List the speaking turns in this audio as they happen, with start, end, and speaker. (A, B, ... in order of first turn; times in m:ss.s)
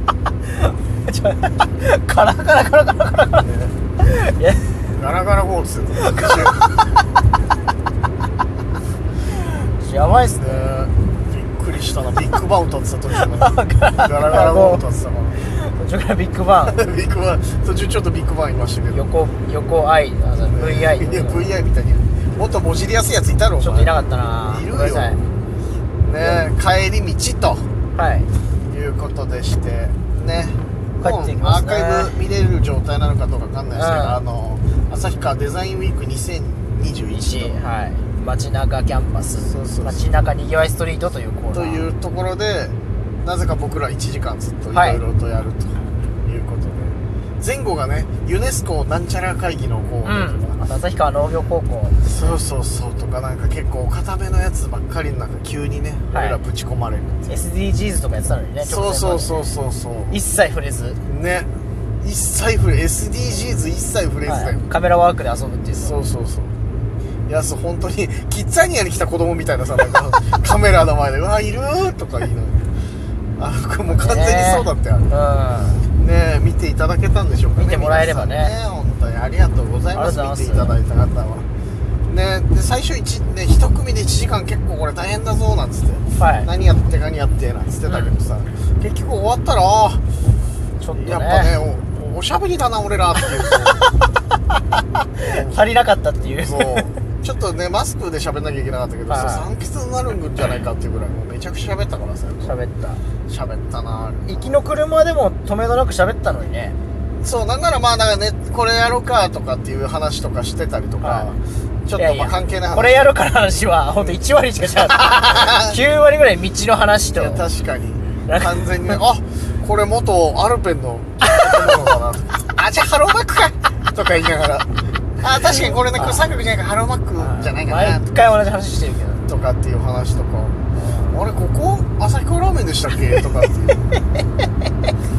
0:00.5-0:04.7 A
0:03.4-0:03.7 B
0:04.9-0:06.7 B
0:06.0-0:06.5 A
0:09.6-0:10.8 A
0:10.3-0:15.5 B
0:13.1-0:14.8 A
0:15.4-0:16.8 A
0:16.7-0:19.0 B
0:18.9-0:21.5 A
0:20.4-0:23.9 B
0:23.6-0:25.2 A
0:24.5-0:25.2 B
0:26.0-0:27.7 B
0:27.9-0:28.3 A
0:28.6-0:37.6 B
0:31.0-0:32.1 A
0:33.7-0:34.2 A
0:37.1-0:41.8 A
0:39.4-0:40.0 B
0:41.5-0:50.6 B
0:44.7-0:45.0 A
0:50.0-0:52.2 A
0:52.0-0:57.3 B
0:56.1-0:56.4 A
0:57.2-0:59.3 A
0:58.6-1:00.2 B
1:00.1-1:01.0 A
1:01.0-1:01.5 B
1:02.0-1:04.6 B
1:04.2-1:05.9 A
1:05.8-1:06.5 B
1:07.3-1:12.7 B
1:13.4-1:15.1 B
1:13.9-1:15.8 A
1:15.9-1:21.4 B
1:17.6-1:18.5 A
1:19.9-1:20.8 A
1:22.1-1:30.0 B
1:26.2-1:26.5 A
1:27.8-1:28.1 A
1:30.8-1:31.5 A
1:31.0-1:33.8 B
1:35.2-1:36.9 A
1:35.2-1:35.6 B
1:36.4-1:42.6 B
1:39.1-1:39.4 A
1:42.4-1:43.0 A
1:43.3-1:44.6 B
1:44.2-1:46.8 A
1:47.2-1:53.1 B
1:51.0-1:51.3 A
1:52.0-1:57.4 A
1:54.8-1:55.8 B
1:57.0-2:08.3 B
1:58.3-1:59.0 A
2:05.4-2:06.2 A
2:07.2-2:09.2 A
2:09.2-2:13.9 B
2:10.7-2:11.2 A